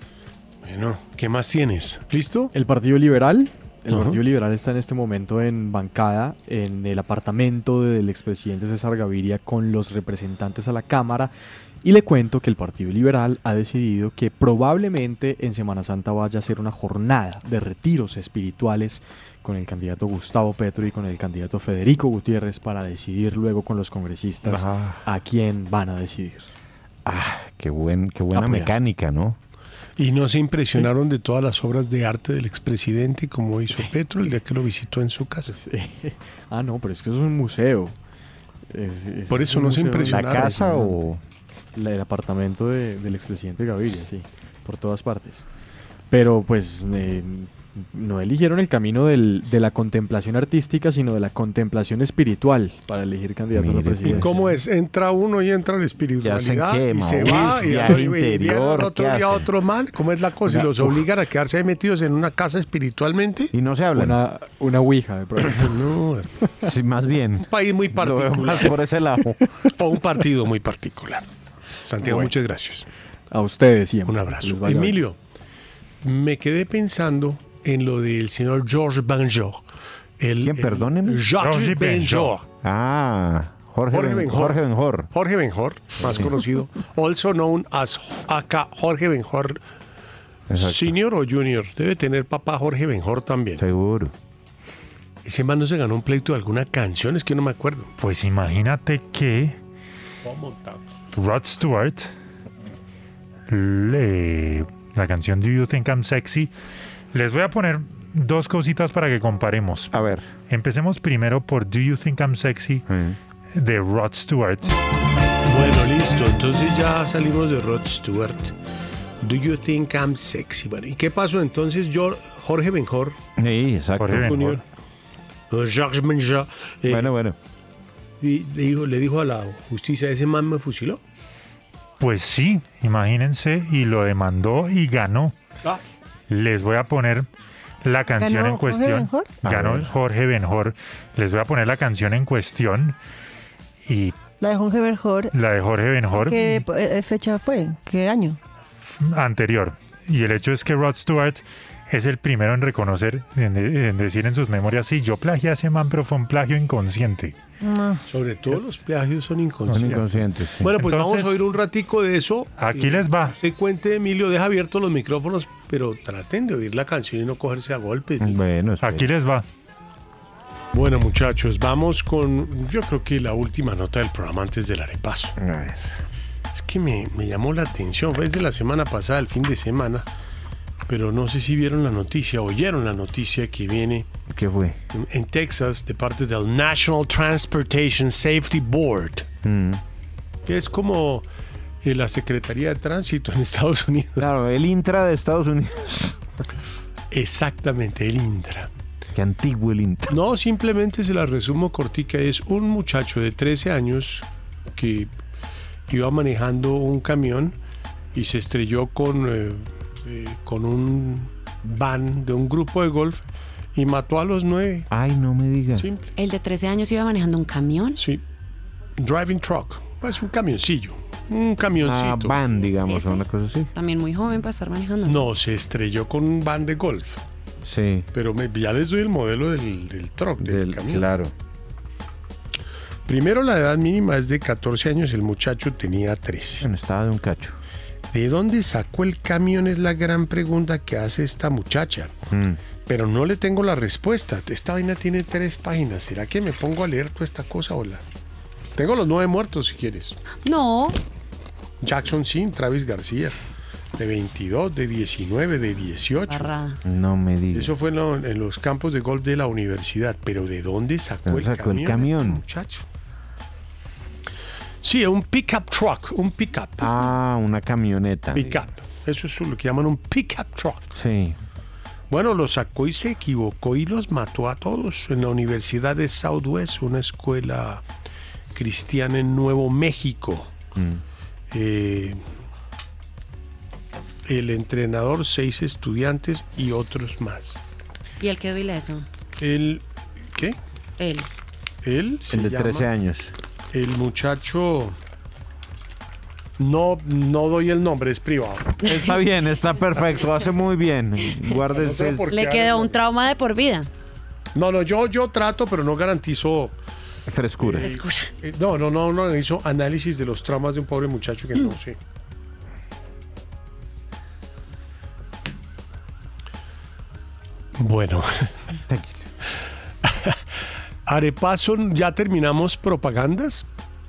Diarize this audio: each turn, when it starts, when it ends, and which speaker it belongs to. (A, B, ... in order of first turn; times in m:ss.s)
0:00.6-0:02.5 A
0:02.5-0:11.3 B
0:03.9-0:04.2 A
0:11.8-0:26.5 B
0:24.4-0:25.0 C
0:27.1-0:29.4 C
0:28.3-0:28.7 B
0:30.0-0:35.5 A
0:35.5-0:38.0 B
0:38.7-0:41.0 B
0:39.3-0:40.6 A
0:40.1-0:41.2 C
0:41.8-0:45.5 B
0:46.1-0:54.5 B
0:53.5-0:54.4 C
0:54.0-1:03.5 A
0:56.2-0:59.5 C
1:00.5-1:01.0 C
1:03.5-1:04.2 C
1:03.9-1:05.8 B
1:05.5-1:06.3 A
1:06.6-1:09.4 C
1:07.4-1:08.8 A
1:09.8-1:11.3 A
1:11.8-1:12.9 A
1:12.0-1:12.3 B
1:13.3-1:15.0 B
1:14.1-1:15.2 A
1:16.0-1:19.6 A
1:20.2-1:22.4 A
1:20.4-1:21.2 C
1:21.4-1:22.3 D
1:22.6-1:25.1 C
1:23.9-1:24.6 A
1:25.1-1:29.6 A
1:26.0-1:26.4 C
1:30.5-1:31.0 C
1:30.6-1:33.6 A
1:33.6-1:34.1 C
1:35.2-1:37.9 A
1:38.0-1:39.6 D
1:40.2-1:40.8 A
1:41.1-1:42.1 D
1:43.5-1:46.5 D
1:47.1-1:49.9 D
1:49.9-1:50.3 C
1:50.5-1:52.8 D
1:52.9-1:53.2 C
1:53.5-1:54.7 D
1:55.4-1:58.5 A
1:59.2-2:03.2 A
2:03.4-2:04.6 C
2:04.0-2:04.4 D
2:04.2-2:04.6 A
2:05.5-2:07.1 A
2:06.9-2:07.4 C
2:08.2-2:11.0 A
2:12.0-2:15.4 D
2:16.3-2:17.3 D
2:17.8-2:23.0 D
2:18.2-2:19.3 E
2:19.4-2:19.9 C
2:23.9-2:24.2 D
2:24.4-2:25.3 E
2:25.3-2:26.6 D
2:26.2-2:28.4 E
2:28.9-2:37.4 D
2:37.6-2:38.0 E
2:38.1-2:48.4 A
2:39.7-2:40.7 C
2:40.8-2:41.4 D
2:42.6-2:43.4 D
2:48.2-2:49.1 C
2:48.8-2:49.4 D
2:50.7-2:55.4 A
2:55.4-2:56.0 C
2:56.5-3:00.1 A
3:00.9-3:04.1 A
3:04.3-3:04.8 C
3:04.9-3:09.3 A
3:09.4-3:09.8 C
3:10.5-3:11.3 A
3:11.8-3:14.3 A
3:14.2-3:16.2 C
3:17.1-3:18.7 A
3:19.2-3:20.2 C
3:20.1-3:25.1 A
3:25.9-3:27.6 A
3:28.1-3:34.9 A
3:34.9-3:35.9 C
3:35.8-3:36.1 A
3:36.2-3:38.0 F
3:38.0-3:38.2 A
3:39.0-3:42.4 A
3:41.8-3:43.7 C
3:42.8-3:45.3 F
3:45.0-3:47.2 A
3:47.6-3:48.1 C
3:48.1-3:51.1 A
3:50.4-3:51.3 C
3:53.1-3:56.7 A
3:56.6-3:57.6 C
3:58.1-4:02.1 A
4:02.3-4:02.6 C
4:02.8-4:08.0 A
4:08.8-4:10.2 A
4:10.4-4:11.0 F
4:11.8-4:13.4 A
4:14.0-4:16.5 A
4:16.3-4:16.8 F
4:16.8-4:17.7 C
4:17.5-4:22.8 A
4:21.3-4:22.4 C
4:24.8-4:26.9 A
4:26.8-4:28.6 C
4:28.3-4:30.9 A
4:31.0-4:31.4 C
4:32.1-4:37.8 A
4:38.5-4:40.5 A
4:40.8-4:41.0 C
4:41.5-4:42.2 A
4:44.2-4:47.6 A
4:48.2-4:49.1 F
4:49.4-4:50.6 A
4:51.0-4:51.3 F
4:51.8-4:52.9 A
4:52.3-4:53.3 C
4:53.7-4:55.0 A
4:56.6-4:58.8 A
4:58.8-5:02.3 C
5:01.7-5:03.0 A
5:02.3-5:03.9 F
5:04.6-5:06.8 A
5:07.3-5:07.9 C
5:07.6-5:12.0 A
5:07.8-5:08.3 F
5:17.8-5:18.5 A
5:18.9-5:19.2 C
5:20.0-5:20.4 A
5:21.1-5:23.7 A